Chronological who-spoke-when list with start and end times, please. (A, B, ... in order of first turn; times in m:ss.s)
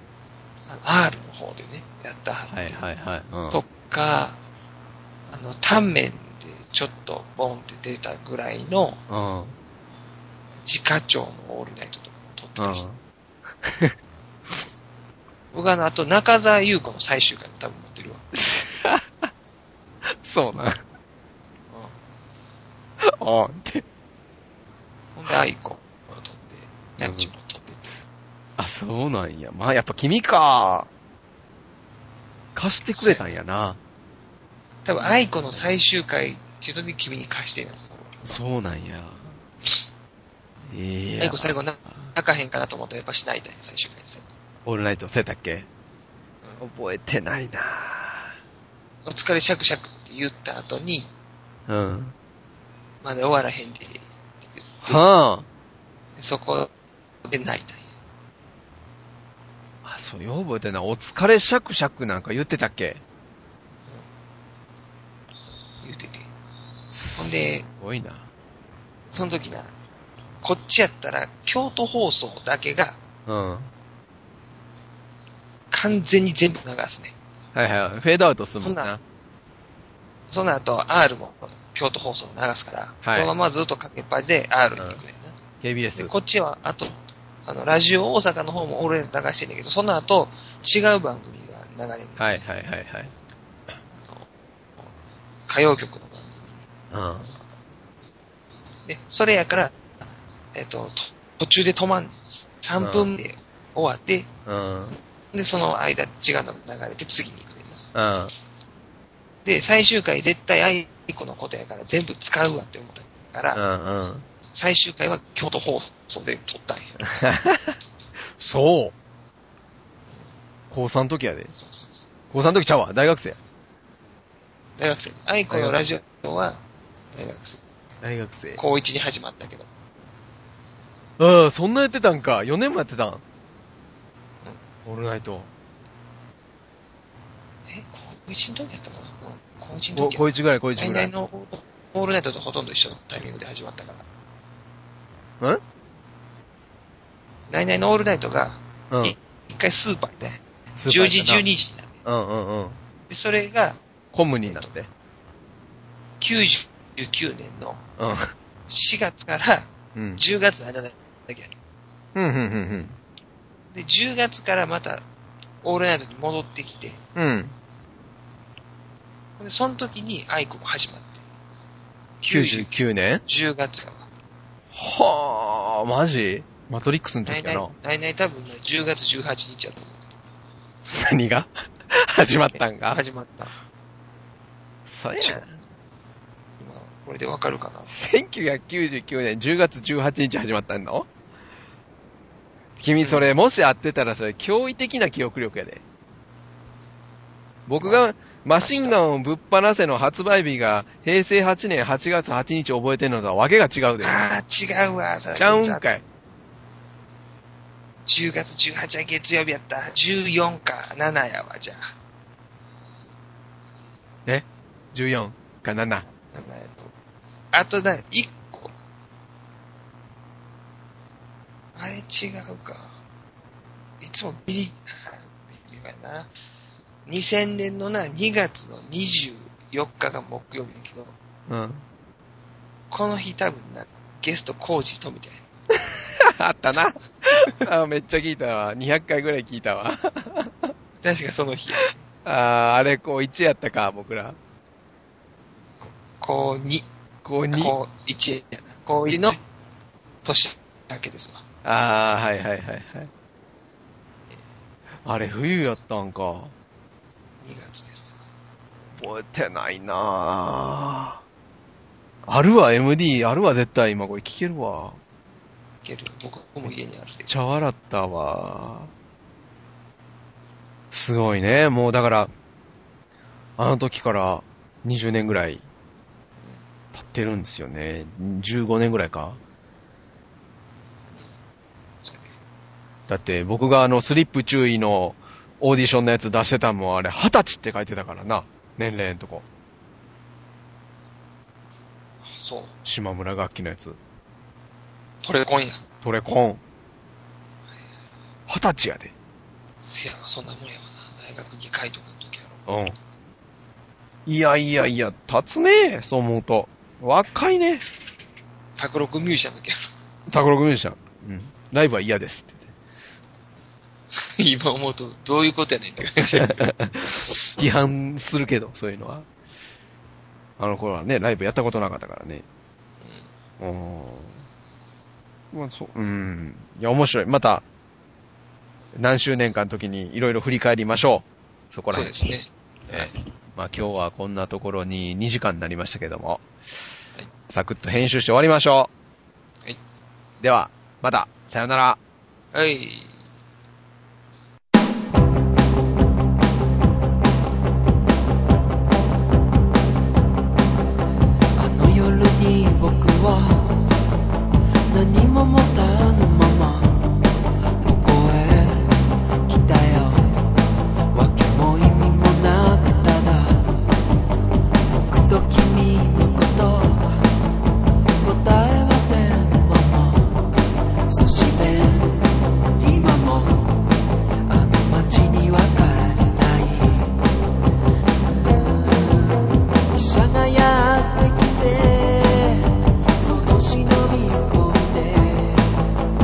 0:00.7-0:02.8 A
0:02.5-0:03.6 B
0:03.5-0:04.4 A
0:05.3-0:09.0 A
0:09.1-0:09.6 B
0:10.6-0:12.8 A
0:12.6-0:13.0 B
0:13.6-0:13.9 B
0:15.5-0:18.2 A
0:18.3-0:19.3 B
0:20.1-0:20.8 B
0:21.7-0:22.0 A
0:23.0-0:23.8 B
0:25.1-0:28.0 A
0:27.0-0:27.3 B
0:28.6-0:30.9 B
0:32.5-0:33.8 B
0:32.9-0:33.2 A
0:34.8-0:38.3 A
0:38.2-0:39.4 B
0:40.7-0:42.0 B
0:41.2-0:44.2 A
0:44.6-0:45.7 B
0:46.6-0:48.3 B
0:49.0-0:51.1 A
0:51.7-0:52.1 B
0:53.0-0:55.0 A
0:54.8-0:55.5 B
0:56.2-0:56.7 A
0:57.2-0:57.9 A
0:59.8-1:03.0 B
1:05.8-1:06.3 A
1:06.9-1:08.3 B
1:07.2-1:07.6 A
1:09.1-1:09.7 A
1:10.4-1:13.0 A
1:13.3-1:13.7 B
1:15.7-1:17.1 A
1:17.5-1:19.0 B
1:18.6-1:18.9 A
1:20.3-1:25.4 A
1:23.0-1:23.3 B
1:24.8-1:25.0 B
1:25.6-1:26.1 B
1:26.0-1:32.4 A
1:32.2-1:33.1 B
1:33.9-1:34.3 A
1:35.5-1:36.6 A
1:36.9-1:37.3 B
1:38.8-1:39.8 A
1:40.5-1:44.3 A
1:42.8-1:43.1 B
1:44.4-1:44.9 B
1:45.3-1:47.8 A
1:47.9-1:48.3 B
1:49.4-1:53.6 A
1:53.6-1:54.2 B
1:54.5-1:57.1 A
1:57.0-1:57.8 B
1:58.4-1:58.9 B
2:00.7-2:01.5 B
2:01.5-2:02.0 A
2:02.3-2:03.4 B
2:04.8-2:06.6 A
2:05.5-2:05.8 B
2:07.1-2:07.6 A
2:08.0-2:08.6 B
2:08.6-2:09.7 A
2:11.2-2:13.2 B
2:14.8-2:15.5 B
2:17.7-2:24.0 A
2:19.9-2:21.1 B
2:27.5-2:31.9 A
2:28.9-2:29.2 B
2:30.8-2:31.4 B
2:32.0-2:32.8 B
2:33.1-2:33.8 A
2:34.1-2:34.9 B
2:34.4-2:34.7 A
2:36.2-2:37.8 A
2:38.0-2:38.3 B
2:38.7-2:41.6 A
2:39.9-2:40.2 B
2:42.1-2:43.0 B
2:43.7-2:45.0 A
2:45.6-2:47.0 A
2:47.2-2:47.5 B
2:49.4-2:51.2 A
2:52.2-2:52.7 A
2:52.3-2:53.2 B
2:53.2-2:54.1 A
2:54.7-2:57.7 B
2:57.2-3:00.0 A
3:00.9-3:03.0 B
3:02.5-3:03.5 A
3:04.8-3:05.6 B
3:05.2-3:05.5 A
3:06.6-3:07.9 A
3:07.9-3:11.1 B
3:12.8-3:15.8 B
3:13.0-3:13.3 A
3:17.7-3:24.2 B
3:17.8-3:18.0 A
3:18.6-3:19.0 A
3:24.0-3:25.9 A
3:25.3-3:26.0 B
3:28.0-3:31.9 A
3:34.2-3:36.1 B
3:36.3-3:36.9 A
3:37.5-3:38.7 A
3:41.7-3:43.0 A
3:44.0-3:46.3 A
3:47.0-3:51.1 A
3:51.5-3:51.8 B
3:52.9-3:55.4 A
3:55.8-4:00.7 B
4:01.0-4:02.0 A
4:02.2-4:04.4 B
4:05.8-4:06.8 A
4:07.2-4:07.8 B
4:07.5-4:09.4 A
4:10.2-4:11.4 A
4:11.6-4:13.1 B
4:15.0-4:16.5 B
4:17.4-4:18.2 A
4:19.0-4:21.2 B
4:22.2-4:25.0 B
4:25.8-4:27.3 A
4:27.3-4:28.9 B
4:30.9-4:32.3 B
4:33.6-4:35.6 B
4:36.9-4:39.4 B
4:42.0-4:42.3 A
4:43.1-4:49.4 B
4:52.2-4:52.7 A
4:52.8-4:54.0 B
4:55.2-4:55.8 A
4:56.0-4:56.6 B
4:58.5-4:59.1 B
4:59.8-5:02.6 A
5:02.7-5:03.0 B
5:04.2-5:07.8 B
5:08.8-5:09.9 A
5:10.3-5:12.7 B
5:14.1-5:16.7 A
5:16.3-5:19.3 B
5:20.6-5:22.4 B
5:23.0-5:23.3 A
5:23.6-5:24.4 B
5:25.5-5:27.6 B
5:28.9-5:32.1 B
5:31.9-5:33.1 A
5:32.9-5:36.4 B
5:37.5-5:38.9 B
5:40.4-5:42.0 B
5:42.5-5:43.2 A
5:51.6-5:53.9 C
5:54.9-5:57.2 C
5:57.8-6:00.6 C
6:01.1-6:03.9 C
6:04.8-6:07.2 C
6:08.2-6:10.5 C
6:11.1-6:13.9 C
6:14.5-6:17.2 C
6:18.2-6:25.9 C